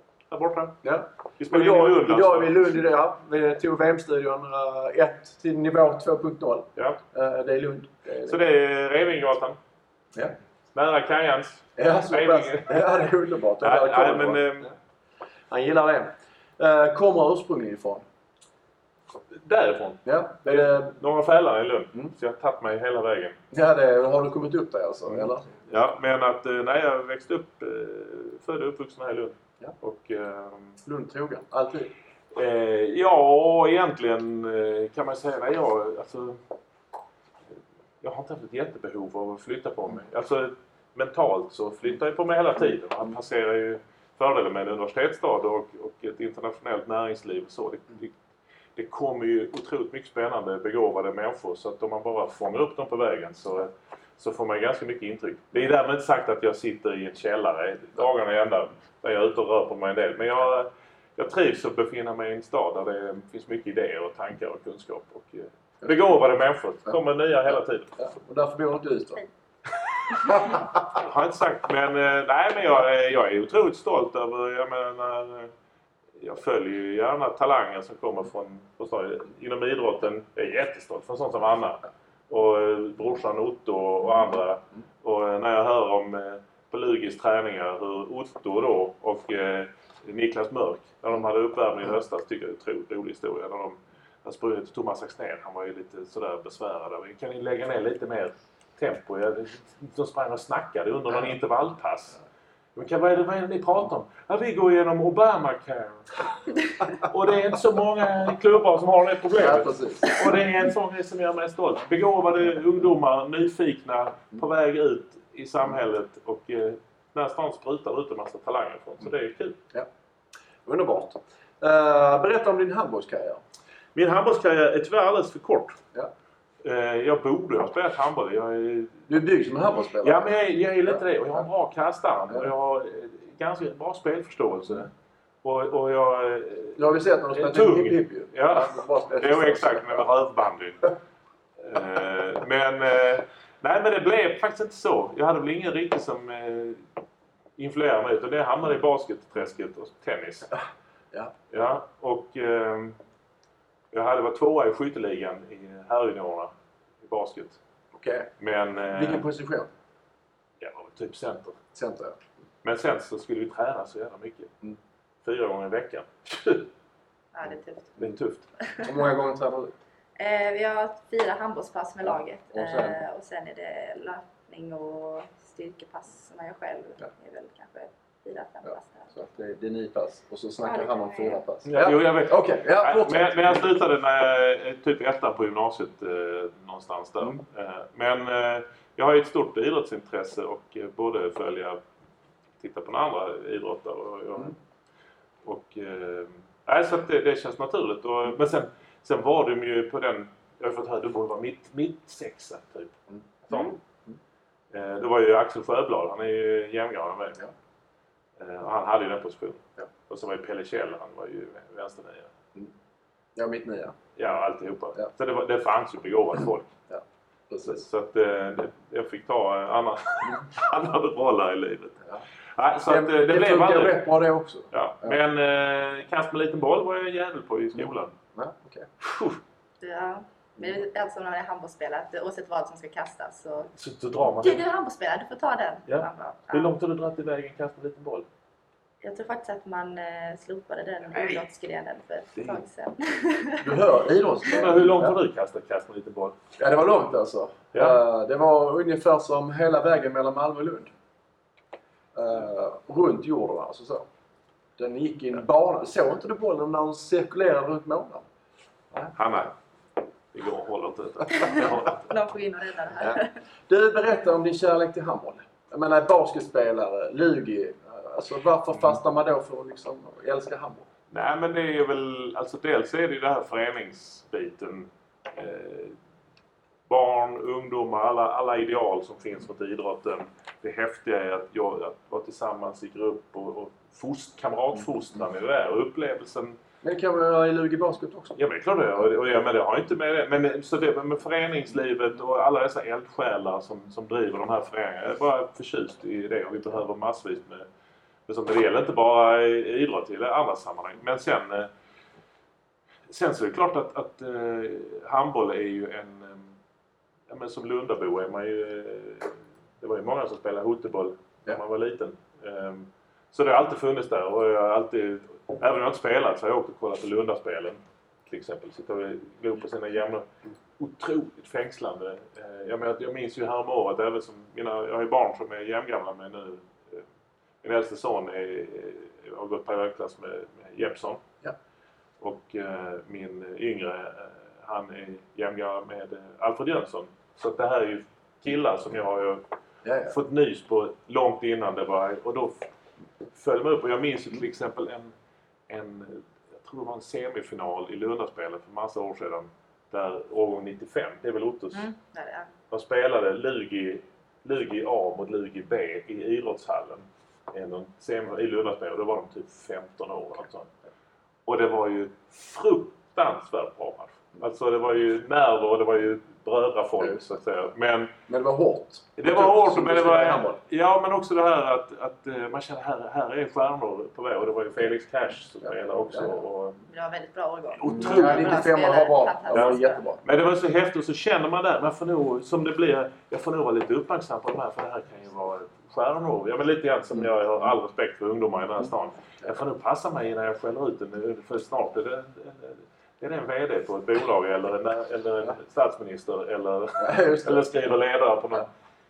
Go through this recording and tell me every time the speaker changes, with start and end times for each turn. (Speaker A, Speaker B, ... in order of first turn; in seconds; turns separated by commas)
Speaker A: 0.3-0.8, Speaker B: 0.8-8.4, Speaker A: 1.4-2.5, Speaker A: 8.3-9.6, Speaker A: 10.7-12.9, Speaker B: 11.8-14.7, Speaker A: 13.6-14.7, Speaker B: 15.5-18.0, Speaker A: 19.3-23.4, Speaker B: 20.1-20.9, Speaker B: 23.5-25.5, Speaker A: 25.1-30.8, Speaker B: 30.8-31.9, Speaker A: 32.3-36.4, Speaker A: 38.0-48.1, Speaker A: 48.8-68.0, Speaker B: 68.0-69.2, Speaker B: 70.2-70.7, Speaker A: 70.3-75.5, Speaker A: 76.2-102.2, Speaker A: 102.8-106.2, Speaker A: 107.0-119.5, Speaker B: 109.4-110.3, Speaker B: 120.7-123.4, Speaker A: 123.9-125.8, Speaker A: 126.6-129.1, Speaker B: 129.1-130.3, Speaker A: 130.0-134.9, Speaker A: 135.4-136.8, Speaker B: 136.8-140.0, Speaker A: 137.3-140.9, Speaker A: 141.6-146.8, Speaker A: 147.6-150.5, Speaker A: 151.5-153.0, Speaker A: 153.9-157.6, Speaker B: 157.9-158.3, Speaker A: 158.4-159.2, Speaker B: 158.9-159.7, Speaker A: 160.6-161.6, Speaker B: 161.7-162.2, Speaker A: 162.6-164.5, Speaker A: 165.2-166.7, Speaker C: 167.3-167.9, Speaker A: 168.0-168.4, Speaker B: 168.8-169.7, Speaker C: 170.2-179.1, Speaker B: 172.5-173.0, Speaker B: 179.1-183.7, Speaker C: 180.6-181.4, Speaker A: 181.7-191.8, Speaker A: 192.6-194.6, Speaker A: 195.4-203.0, Speaker A: 203.5-203.8, Speaker C: 203.5-203.8, Speaker A: 204.7-207.4, Speaker A: 208.4-212.3, Speaker B: 213.3-213.9, Speaker A: 214.2-216.7, Speaker B: 216.9-217.8, Speaker A: 217.7-222.0, Speaker A: 222.6-224.0, Speaker B: 222.9-225.2, Speaker A: 224.7-228.1, Speaker B: 227.8-228.9, Speaker A: 229.0-229.4, Speaker C: 229.8-233.7, Speaker A: 233.8-234.6, Speaker C: 234.2-236.7, Speaker A: 235.9-238.3, Speaker C: 239.0-243.8, Speaker B: 243.6-245.2, Speaker A: 244.5-246.3, Speaker B: 246.6-250.9, Speaker B: 252.1-254.1, Speaker B: 254.8-258.2, Speaker A: 259.1-259.5, Speaker A: 260.3-262.1, Speaker C: 261.3-263.3, Speaker B: 263.0-270.9, Speaker A: 271.1-275.9, Speaker A: 276.9-286.6, Speaker B: 286.8-288.4, Speaker A: 288.4-297.6, Speaker A: 298.3-301.7, Speaker A: 303.1-306.5, Speaker A: 307.3-320.2, Speaker A: 320.8-327.0, Speaker A: 327.6-331.2, Speaker A: 332.2-339.4, Speaker B: 339.8-340.1, Speaker A: 340.1-342.6, Speaker A: 343.3-345.1, Speaker A: 345.7-351.9, Speaker C: 351.7-352.5, Speaker A: 352.7-360.7, Speaker A: 361.4-368.1, Speaker B: 367.0-367.3, Speaker B: 368.3-370.6, Speaker A: 369.2-376.8, Speaker C: 376.9-380.0, Speaker A: 377.8-378.8, Speaker B: 377.9-380.2, Speaker A: 379.5-398.7, Speaker B: 397.0-397.7